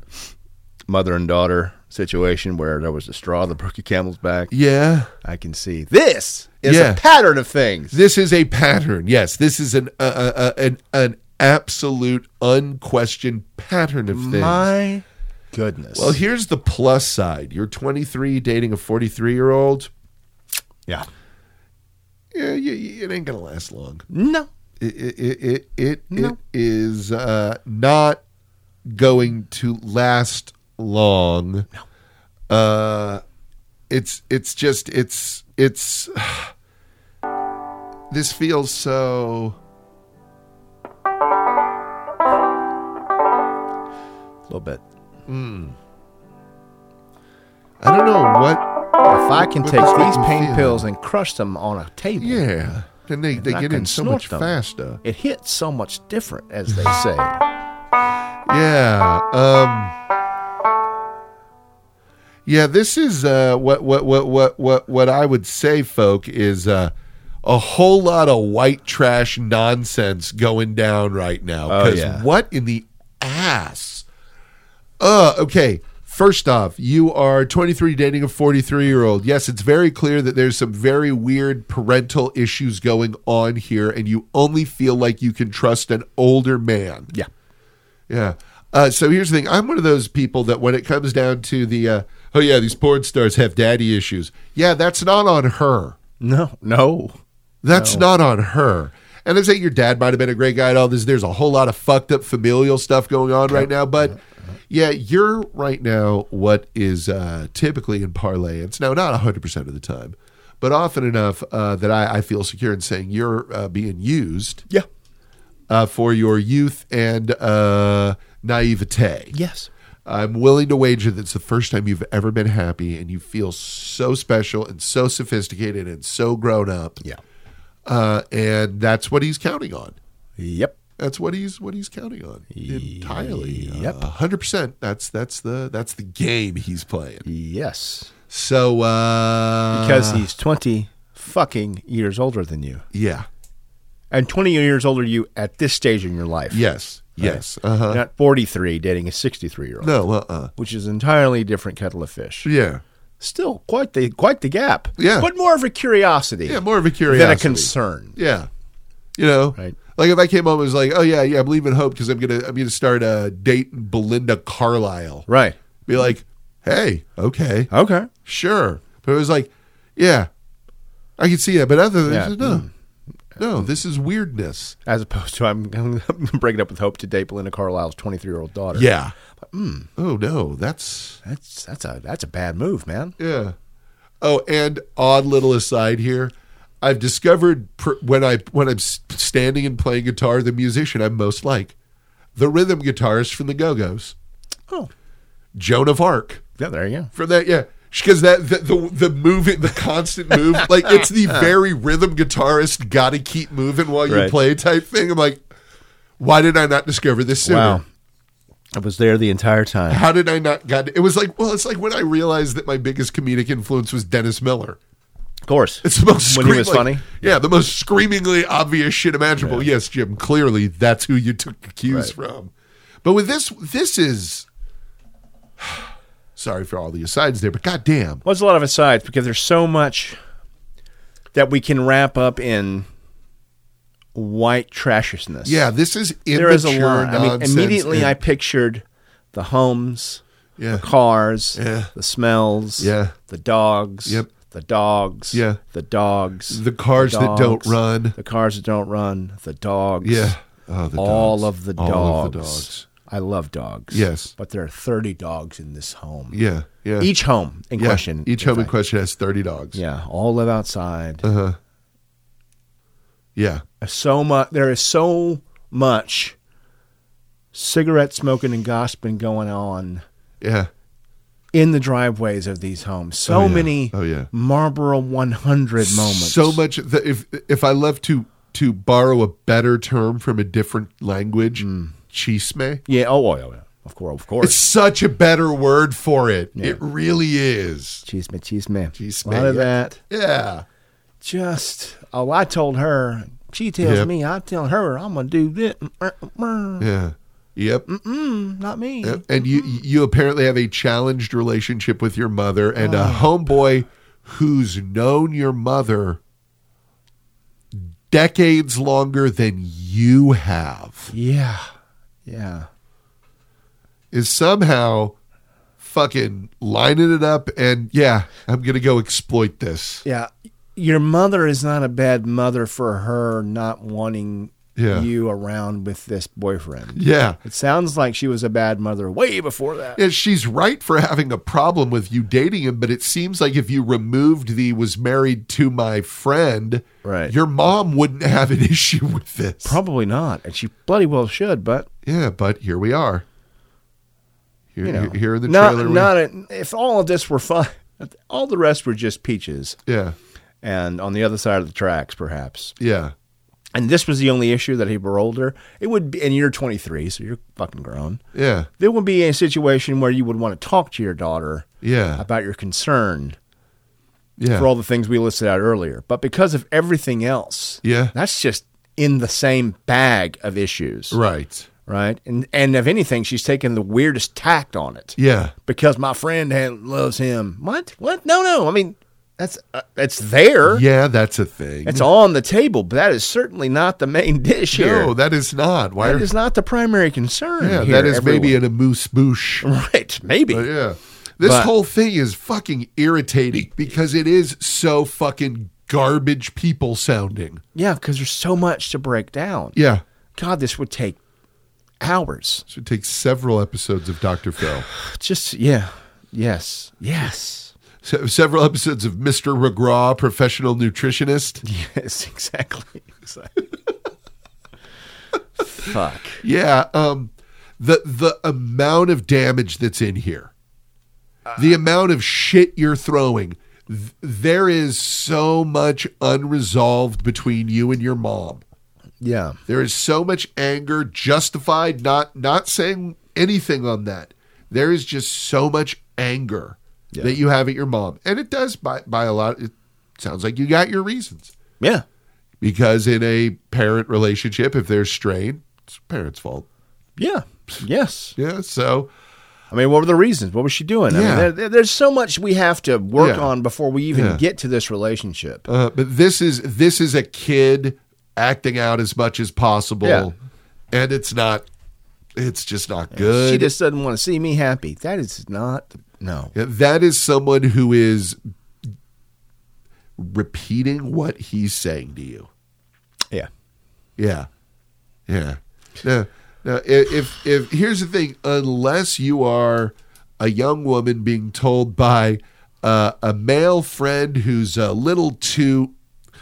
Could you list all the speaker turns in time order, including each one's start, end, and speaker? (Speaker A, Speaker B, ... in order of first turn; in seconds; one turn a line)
Speaker A: 0.9-4.5
Speaker B: 4.5-5.1
Speaker A: 5.2-8.0
Speaker B: 6.6-7.0
Speaker B: 7.9-14.7
Speaker A: 14.1-16.2
Speaker B: 15.9-19.9
Speaker B: 22.3-24.1
Speaker A: 24.1-24.5
Speaker B: 24.8-28.2
Speaker A: 26.1-26.4
Speaker B: 28.9-31.7
Speaker B: 32.5-33.2
Speaker B: 33.9-36.5
Speaker B: 38.1-39.6
Speaker A: 44.5-44.8
Speaker B: 45.3-45.8
Speaker B: 47.8-48.7
Speaker A: 49.1-52.5
Speaker B: 49.3-50.9
Speaker B: 52.2-55.0
Speaker A: 53.4-57.4
Speaker B: 58.5-60.0
Speaker B: 62.5-66.9
Speaker B: 67.4-74.1
Speaker A: 71.7-72.3
Speaker B: 75.0-87.1
Speaker B: 88.1-96.0
Speaker A: 96.2-97.2
Speaker B: 97.6-104.2
Speaker A: 97.7-98.1
Speaker A: 103.5-104.1
Speaker B: 104.7-114.7
Speaker B: 115.7-119.3
Speaker A: 119.3-119.7
Speaker B: 120.1-127.0
Speaker B: 127.9-130.0
Speaker A: 130.4-130.8
Speaker B: 131.0-137.3
Speaker A: 132.5-134.1
Speaker A: 137.2-138.1
Speaker B: 138.3-140.2
Speaker A: 139.7-142.8
Speaker B: 142.9-143.3
Speaker A: 144.1-150.0
Speaker B: 146.5-148.0
Speaker B: 149.8-150.5
Speaker A: 150.6-152.5
Speaker B: 152.4-152.8
Speaker A: 153.2-158.2
Speaker B: 155.0-155.3
Speaker B: 156.4-158.5
Speaker B: 159.2-165.3
Speaker A: 165.3-165.6
Speaker B: 165.9-167.7
Speaker A: 167.7-168.1
Speaker B: 168.2-170.3
Speaker B: 171.2-172.7
Speaker A: 172.1-172.7
Speaker A: 173.4-173.7
Speaker B: 173.4-174.8
Speaker A: 174.9-178.9
Speaker B: 178.7-179.1
Speaker A: 179.5-179.9
Speaker B: 180.0-181.2
Speaker A: 181.2-183.2
Speaker B: 183.2-183.6
Speaker B: 184.2-191.8
Speaker B: 192.4-194.2
Speaker B: 195.6-196.4
Speaker A: 196.6-197.1
Speaker B: 197.1-205.4
Speaker A: 200.6-201.1
Speaker A: 204.1-204.4
Speaker B: 206.2-207.8
Speaker A: 207.4-207.8
Speaker A: 208.8-210.0
Speaker B: 209.9-214.8
Speaker A: 215.5-217.1
Speaker B: 215.8-222.5
Speaker A: 219.4-219.7
Speaker B: 223.0-224.5
Speaker B: 225.6-225.8
Speaker B: 226.4-228.2
Speaker A: 228.2-230.2
Speaker A: 231.3-232.9
Speaker A: 234.2-235.7
Speaker B: 235.4-238.2
Speaker A: 236.3-250.4
Speaker B: 240.6-240.9
Speaker B: 241.6-241.9
Speaker B: 242.8-243.2
Speaker B: 245.3-245.6
Speaker B: 246.5-248.2
Speaker B: 250.0-252.9
Speaker A: 250.9-256.4
Speaker B: 253.9-254.3
Speaker B: 256.3-257.1
Speaker A: 257.0-258.7
Speaker B: 257.8-259.8
Speaker A: 259.7-261.2
Speaker B: 261.2-261.6
Speaker B: 263.4-263.6
Speaker A: 263.8-266.4
Speaker A: 267.5-270.0
Speaker B: 270.4-270.7
Speaker A: 271.5-276.6
Speaker B: 273.3-274.3
Speaker B: 275.8-282.8
Speaker A: 281.6-282.0
Speaker A: 282.9-284.6
Speaker B: 284.4-288.0
Speaker A: 286.6-286.8
Speaker A: 288.1-290.0
Speaker B: 288.9-290.6
Speaker A: 291.2-296.9
Speaker B: 293.8-294.1
Speaker B: 296.8-297.9
Speaker A: 297.9-299.2
Speaker B: 299.0-306.2
Speaker A: 302.8-303.4
Speaker B: 307.7-311.1
Speaker A: 311.1-311.7
Speaker A: 312.3-312.7
Speaker B: 314.1-315.2
Speaker B: 315.8-320.0
Speaker A: 320.1-330.0
Speaker B: 324.8-325.1
Speaker B: 326.9-327.4
Speaker B: 329.9-339.8
Speaker A: 337.0-337.3
Speaker A: 339.6-341.9
Speaker B: 342.1-343.2
Speaker B: 344.7-346.1
Speaker A: 344.8-349.8
Speaker B: 349.9-350.1
Speaker A: 350.6-352.8
Speaker B: 352.8-353.1
Speaker A: 353.7-358.2
Speaker B: 358.3-358.7
Speaker A: 358.8-363.4
Speaker B: 361.8-362.2
Speaker B: 364.4-364.7
Speaker A: 364.5-371.2
Speaker B: 367.8-368.1
Speaker B: 371.1-371.7
Speaker A: 371.9-380.8
Speaker B: 375.2-375.5
Speaker B: 380.7-382.1
Speaker A: 381.8-385.1
Speaker B: 384.7-386.3
Speaker A: 386.0-388.6
Speaker B: 387.6-389.7
Speaker A: 389.6-390.7
Speaker B: 390.5-397.6
Speaker A: 391.4-391.7
Speaker A: 397.8-399.8
Speaker B: 399.8-400.0
Speaker A: 400.4-401.2
Speaker A: 402.0-402.7
Speaker B: 402.7-404.9
Speaker A: 404.8-407.7
Speaker B: 408.0-411.6
Speaker A: 411.6-413.5
Speaker A: 415.6-416.4
Speaker B: 416.4-420.5
Speaker B: 421.6-428.6
Speaker A: 429.2-429.6
Speaker B: 429.7-441.5
Speaker B: 442.6-446.7
Speaker A: 447.2-448.4
Speaker B: 448.4-449.1
Speaker A: 449.7-455.7
Speaker B: 451.1-451.5
Speaker B: 453.2-453.5
Speaker B: 454.1-454.4
Speaker B: 455.7-460.3
Speaker A: 460.0-460.3
Speaker B: 460.9-461.7
Speaker B: 462.4-463.7
Speaker A: 463.1-466.5
Speaker B: 466.5-468.4
Speaker B: 470.2-472.5
Speaker B: 474.2-474.5
Speaker B: 475.3-485.9